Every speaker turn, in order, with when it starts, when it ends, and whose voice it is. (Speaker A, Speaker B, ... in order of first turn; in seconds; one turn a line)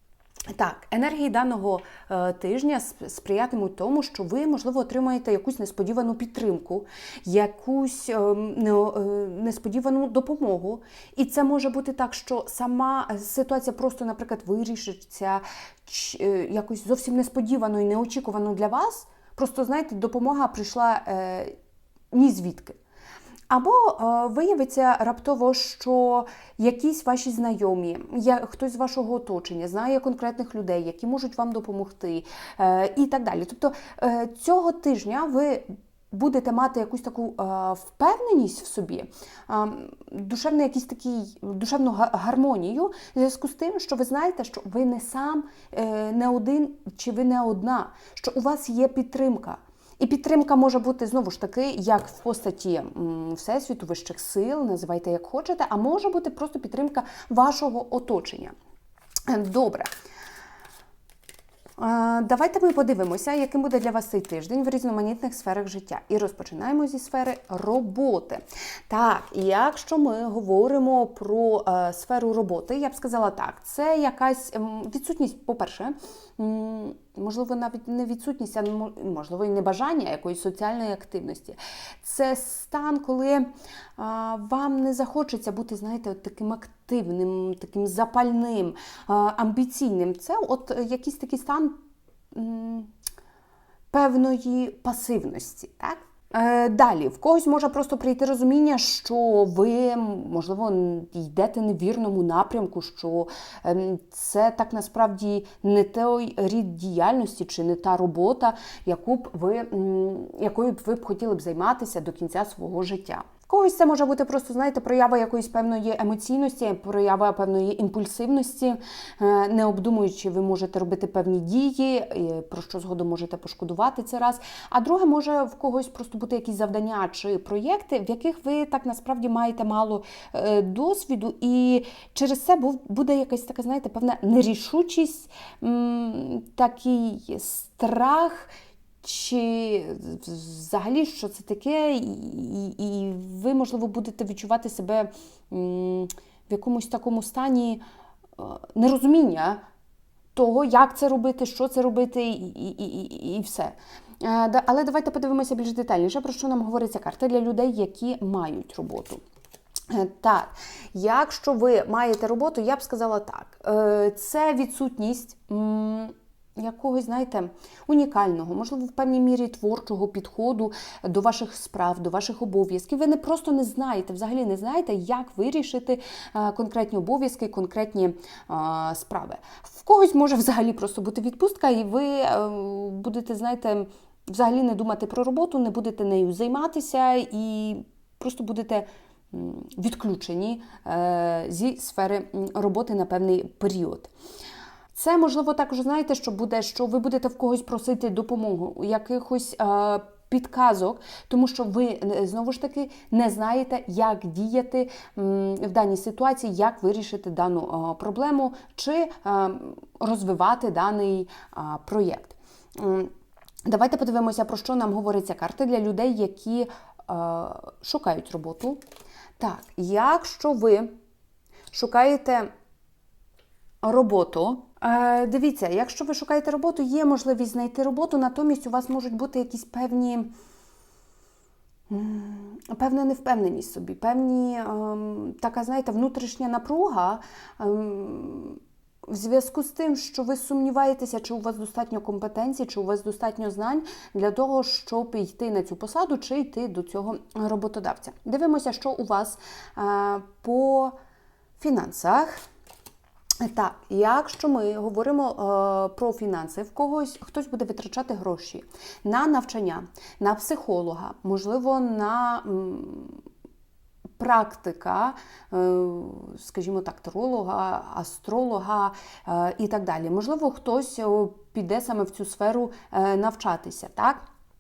Speaker A: 0.5-21.5
Speaker A: 22.1-22.8
Speaker A: 23.5-58.5
Speaker A: 59.3-59.9
Speaker A: 61.8-83.5
Speaker A: 84.0-91.8
Speaker A: 92.3-92.9
Speaker A: 93.9-138.5
Speaker A: 139.0-147.8
Speaker A: 148.4-149.6
Speaker A: 150.3-159.2
Speaker A: 159.9-194.1
Speaker A: 194.9-213.1
Speaker A: 213.7-218.8
Speaker A: 219.4-220.9
Speaker A: 221.7-222.5
Speaker A: 223.8-230.3
Speaker A: 231.9-250.9
Speaker A: 251.6-252.4
Speaker A: 253.4-263.2
Speaker A: 264.2-274.2